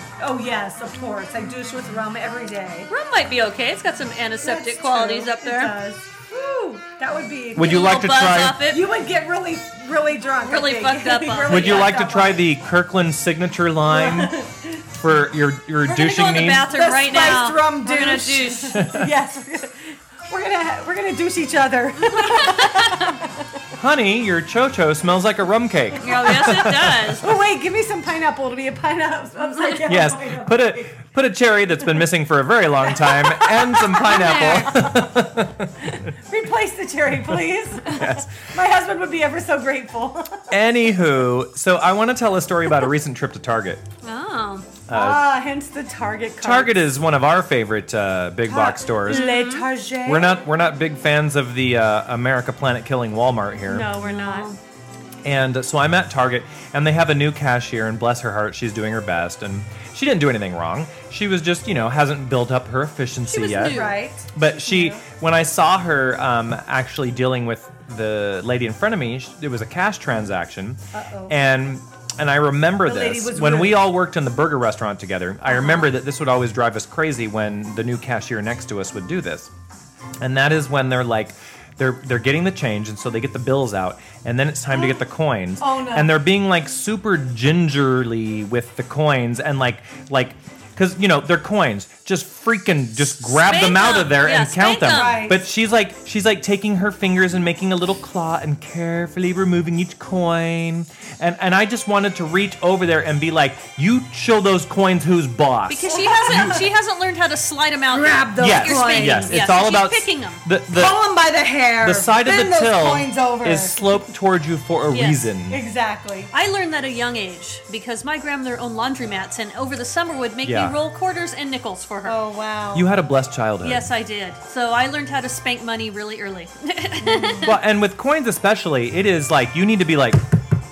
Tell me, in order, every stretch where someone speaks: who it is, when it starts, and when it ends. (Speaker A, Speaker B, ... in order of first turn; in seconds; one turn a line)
Speaker A: 0.2-2.9
Speaker B: 2.9-5.7
Speaker A: 4.4-7.9
Speaker C: 7.6-8.7
Speaker B: 7.6-8.9
Speaker A: 8.7-12.5
Speaker B: 10.4-11.9
Speaker C: 11.5-14.4
Speaker A: 13.9-14.7
Speaker C: 14.9-16.7
Speaker B: 15.9-18.8
Speaker A: 16.5-23.5
Speaker C: 18.8-19.1
Speaker B: 22.0-23.2
Speaker C: 23.8-27.2
Speaker B: 26.0-27.3
Speaker A: 27.2-30.9
Speaker B: 29.4-29.8
Speaker C: 29.9-35.9
Speaker A: 32.9-35.1
Speaker B: 34.0-34.8
Speaker A: 35.9-40.5
Speaker C: 37.9-38.3
Speaker C: 40.5-43.8
Speaker B: 44.0-44.8
Speaker C: 44.9-45.3
Speaker A: 44.9-46.8
Speaker C: 46.4-49.3
Speaker A: 48.5-50.4
Speaker B: 49.1-49.7
Speaker C: 50.0-53.9
Speaker A: 53.7-54.5
Speaker B: 54.0-54.6
Speaker C: 55.2-79.5
Speaker B: 63.3-64.0
Speaker A: 63.6-65.0
Speaker A: 70.9-71.4
Speaker A: 72.8-73.9
Speaker A: 75.5-75.9
Speaker C: 80.2-106.6
Speaker A: 84.7-85.0
Speaker A: 85.6-86.2
Speaker B: 93.3-95.3
Speaker A: 94.9-95.4
Speaker B: 105.7-110.4
Speaker A: 105.9-106.7
Speaker A: 107.9-109.4
Speaker C: 108.4-111.0
Speaker A: 110.7-113.8
Speaker C: 111.8-115.6
Speaker B: 114.9-115.3
Speaker A: 115.5-116.3
Speaker B: 116.3-122.2
Speaker C: 120.4-120.8
Speaker A: 122.0-122.9
Speaker C: 122.7-123.9
Speaker B: 123.6-127.6
Speaker A: 127.0-127.5
Speaker C: 127.4-130.3